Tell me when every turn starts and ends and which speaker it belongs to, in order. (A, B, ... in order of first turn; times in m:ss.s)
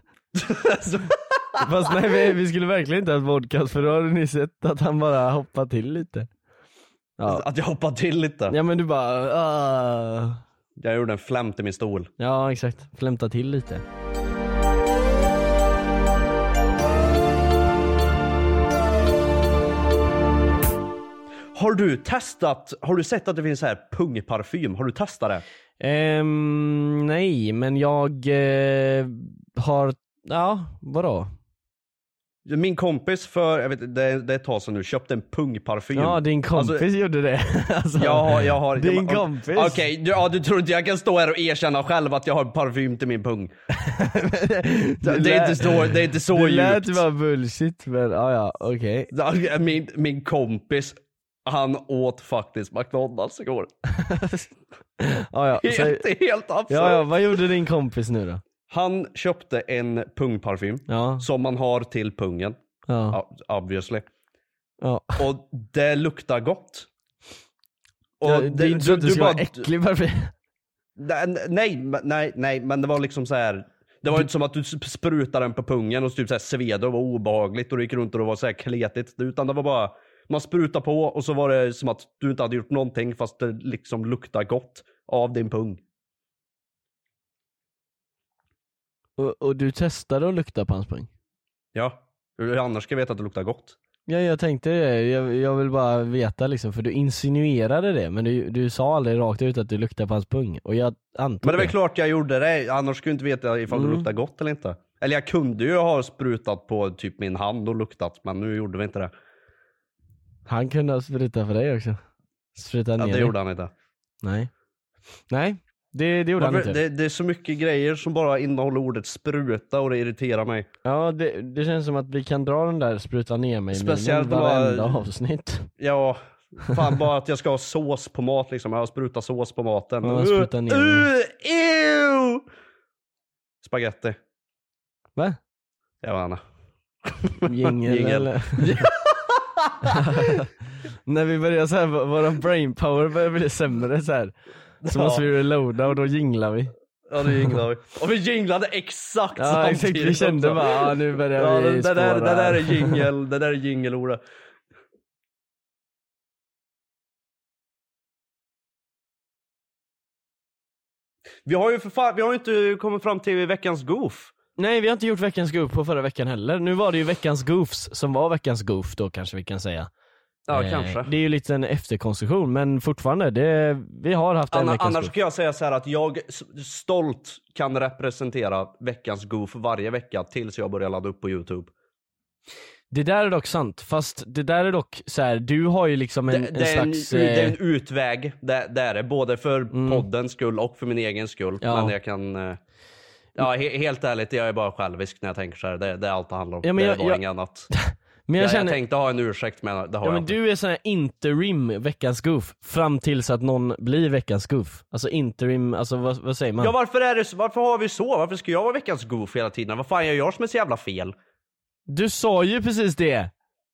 0:00.4-0:01.9 A
0:01.6-0:06.3 B
0:07.3-0:08.6 A
0:08.5-0:10.4 B
0:10.8-0:12.1 A
0:12.2-0:13.8 B
0:21.6-0:25.4 A
0:25.8-0:31.3 B
0:32.5-0:36.8 A
0:36.0-0:39.8 B
0:38.0-0:43.5 A
0:43.8-0:49.1 B
0:45.0-0:47.0 A
0:49.1-0:53.7 A
0:54.0-0:54.5 B
0:55.0-0:56.0 B
0:55.6-0:57.4 A
0:56.7-0:58.4 B
0:58.7-1:02.6 A
1:00.9-1:01.2 B
1:02.9-1:03.2 B
1:03.1-1:04.0 A
1:04.8-1:05.2 B
1:05.2-1:06.9 A
1:08.2-1:09.7 A
1:08.2-1:10.3 B
1:11.0-1:25.8 A
1:29.2-1:31.1 B
1:31.8-1:33.8 A
1:34.1-1:41.7 B
1:41.4-1:49.1 A
1:43.7-1:44.1 B
1:50.5-1:52.0 B
1:52.6-1:53.3 B
1:53.0-1:53.7 A
1:54.2-1:54.5 B
1:55.3-1:56.8 B
1:56.4-2:00.7 A
2:00.8-2:05.7 B
2:03.7-2:05.0 A
2:05.8-2:12.4 A
2:10.0-2:11.1 B
2:13.6-2:14.2 A
2:16.0-2:16.4 A
2:17.1-2:20.0 A
2:17.4-2:18.9 B
2:19.8-2:20.5 B
2:21.1-2:24.4 B
2:24.8-2:25.3 A
2:24.9-2:26.7 B
2:27.1-2:34.2 A
2:29.4-2:33.0 B
2:41.5-2:44.3 A
2:44.6-2:49.9 B
2:50.5-2:51.1 A
2:50.5-2:55.1 B
2:54.5-3:01.7 A
3:02.9-3:07.6 B
3:06.3-3:12.6 A
3:09.7-3:10.0 B
3:11.6-3:11.9 B
3:13.4-3:17.7 A
3:16.6-3:18.8 B
3:18.4-3:20.4 A
3:20.0-3:26.7 B
3:26.6-3:31.1 A
3:31.9-3:33.3 B